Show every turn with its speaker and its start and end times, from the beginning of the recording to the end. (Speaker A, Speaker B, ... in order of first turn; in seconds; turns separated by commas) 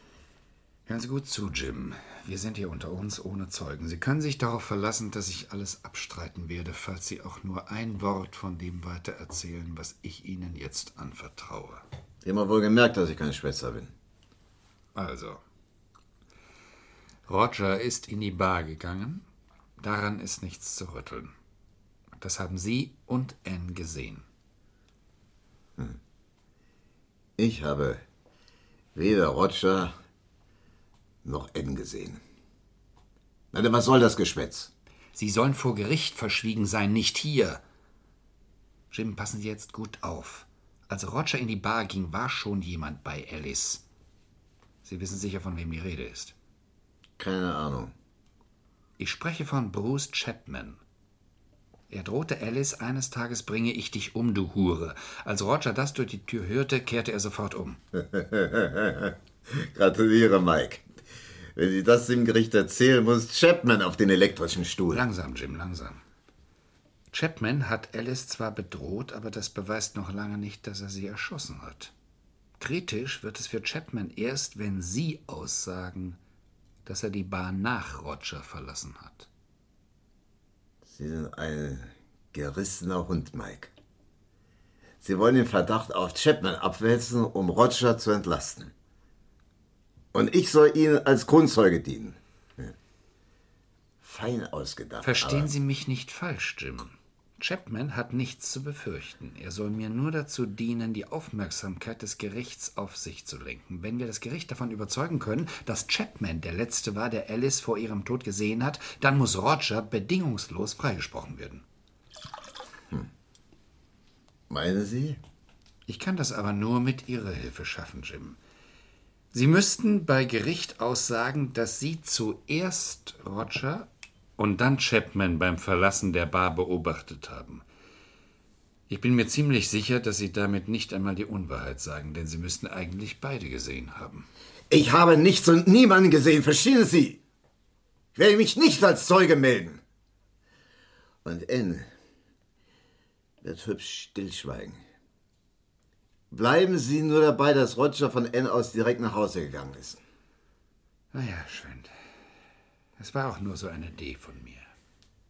Speaker A: 0.9-11.8, Speaker B: 12.2-13.9, Speaker A: 14.9-15.4, Speaker A: 17.3-19.2, Speaker A: 19.8-21.3, Speaker A: 22.2-24.2, Speaker B: 27.4-28.0, Speaker B: 28.9-29.9, Speaker B: 31.2-32.2, Speaker B: 33.5-34.7, Speaker A: 35.1-37.6, Speaker A: 38.9-43.8, Speaker A: 44.8-46.3, Speaker B: 47.2-47.9, Speaker A: 49.0-50.8, Speaker A: 51.9-57.8, Speaker B: 58.0-60.9, Speaker B: 61.5-65.0, Speaker A: 64.9-66.0, Speaker A: 67.1-71.9, Speaker A: 72.6-76.2, Speaker A: 76.8-79.3, Speaker B: 80.8-83.7, Speaker B: 85.0-88.7, Speaker B: 90.1-92.7, Speaker B: 94.0-95.5, Speaker A: 95.0-111.6, Speaker B: 114.5-115.2, Speaker A: 115.9-118.4, Speaker A: 119.3-127.6, Speaker A: 128.9-134.3, Speaker B: 134.7-137.2, Speaker B: 138.1-139.8, Speaker B: 141.2-141.9, Speaker B: 143.4-144.8, Speaker B: 146.3-150.0, Speaker A: 151.1-151.9, Speaker A: 153.0-154.7